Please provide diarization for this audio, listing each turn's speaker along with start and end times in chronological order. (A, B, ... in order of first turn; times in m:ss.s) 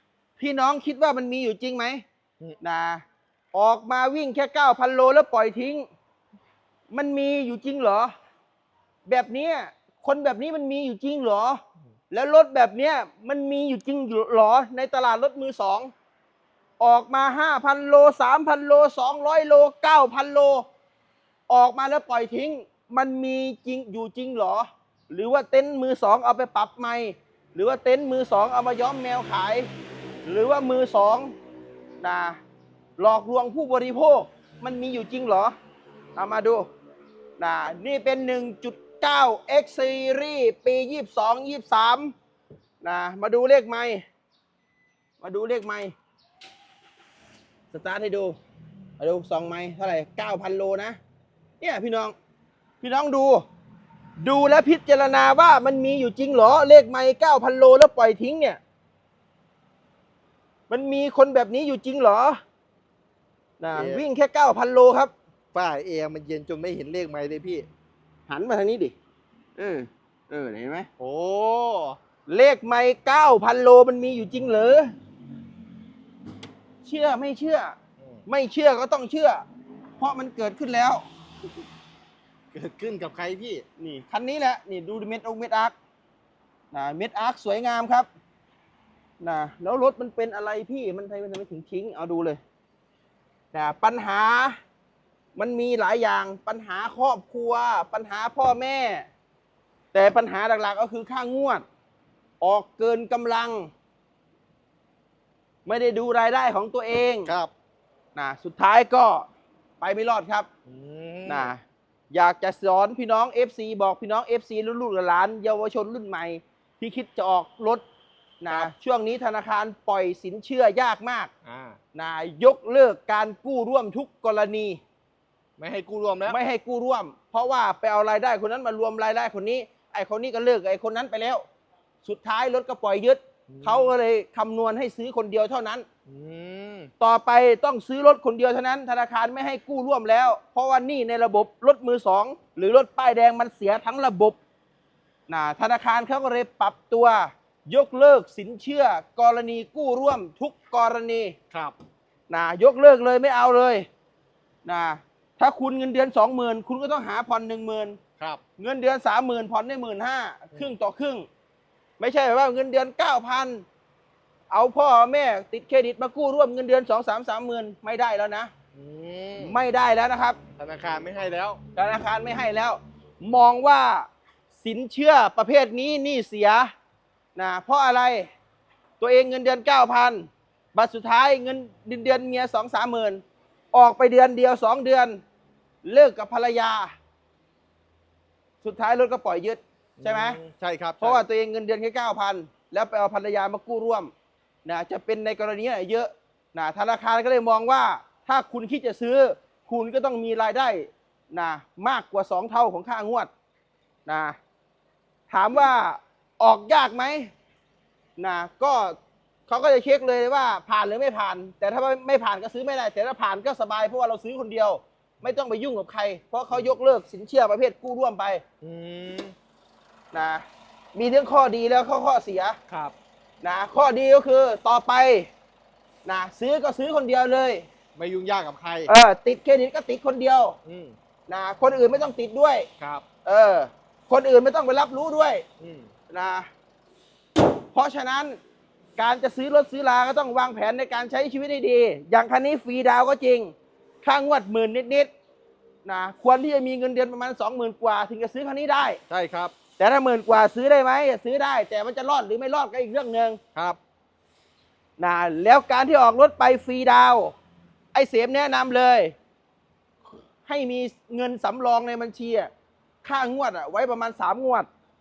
0:00.4-0:02.0 A
0:02.6-0:05.9 A
0:06.9-0:08.1 A
0:09.0-0:15.9 A
0:16.8-0:20.6 A
0:21.5-0:29.7 A
0:30.2-0:31.3 A
0:32.0-0:32.4 A
0:33.0-0:35.5 A
0:36.2-0:36.7 A
0:37.4-0:42.1 A
0:42.8-0:44.0 A
0:45.2-0:45.9 A
0:47.7-0:48.4 A
0:49.0-0:51.0 A
0:51.6-0:52.1 A
0:52.8-0:53.4 A
0:54.2-0:58.6 A
1:00.7-1:02.4 A
1:03.6-1:05.1 A
1:03.7-1:04.0 B
1:05.5-1:07.7 B
1:08.3-1:08.9 A
1:09.6-1:10.9 A
1:11.0-1:12.0 B
1:12.3-1:14.9 A
1:16.8-1:17.8 A
1:18.3-1:19.4 A
1:20.0-1:21.0 A
1:22.5-1:23.6 B
1:23.8-1:25.7 A
1:26.7-1:28.1 A
1:29.2-1:32.4 A
1:33.5-1:34.6 A
1:35.4-1:39.1 A
1:39.9-1:41.6 A
1:42.4-1:43.7 A
1:45.6-1:47.3 A
1:47.2-1:47.5 B
1:48.1-1:49.3 A
1:49.8-1:50.5 A
1:50.7-1:51.5 B
1:51.3-1:51.6 A
1:52.1-1:57.8 A
1:58.4-2:01.3 A
2:01.4-2:01.8 B
2:01.9-2:04.8 A
2:05.6-2:06.4 B
2:06.3-2:11.4 A
2:12.0-2:15.8 A
2:13.5-2:13.9 B
2:16.1-2:16.9 B
2:17.0-2:24.4 A
2:25.3-2:31.3 A
2:31.5-2:31.8 B
2:32.3-2:33.8 A
2:34.6-2:38.0 A
2:38.6-2:41.3 A
2:42.0-2:43.6 A
2:44.5-2:48.5 A
2:48.7-2:49.6 B
2:49.4-2:50.4 A
2:50.6-2:51.6 B
2:51.7-2:54.1 A
2:54.6-2:56.7 A
2:57.4-2:58.3 A
2:59.0-3:03.2 A
3:03.7-3:05.2 A
3:05.8-3:06.9 A
3:08.6-3:10.4 A
3:10.0-3:11.2 B
3:11.0-3:14.1 A
3:14.6-3:23.3 A
3:24.0-3:24.4 A
3:25.3-3:27.3 A
3:28.2-3:29.0 A
3:29.5-3:38.4 A
3:38.6-3:39.3 B
3:40.1-3:42.6 A
3:42.7-3:42.9 B
3:43.4-3:45.3 A
3:46.0-3:47.7 A
3:48.0-3:48.9 B
3:48.9-3:50.6 A
3:50.6-3:51.0 B
3:51.3-3:52.7 A
3:53.2-3:55.4 A
3:55.6-3:55.9 B
3:56.1-3:56.5 A
3:57.7-3:58.4 A
3:59.0-4:05.1 A
4:05.8-4:09.0 A
4:09.1-4:09.5 B
4:09.8-4:13.4 A
4:15.0-4:17.3 A
4:17.9-4:19.1 A
4:20.4-4:22.5 A
4:23.0-4:24.7 A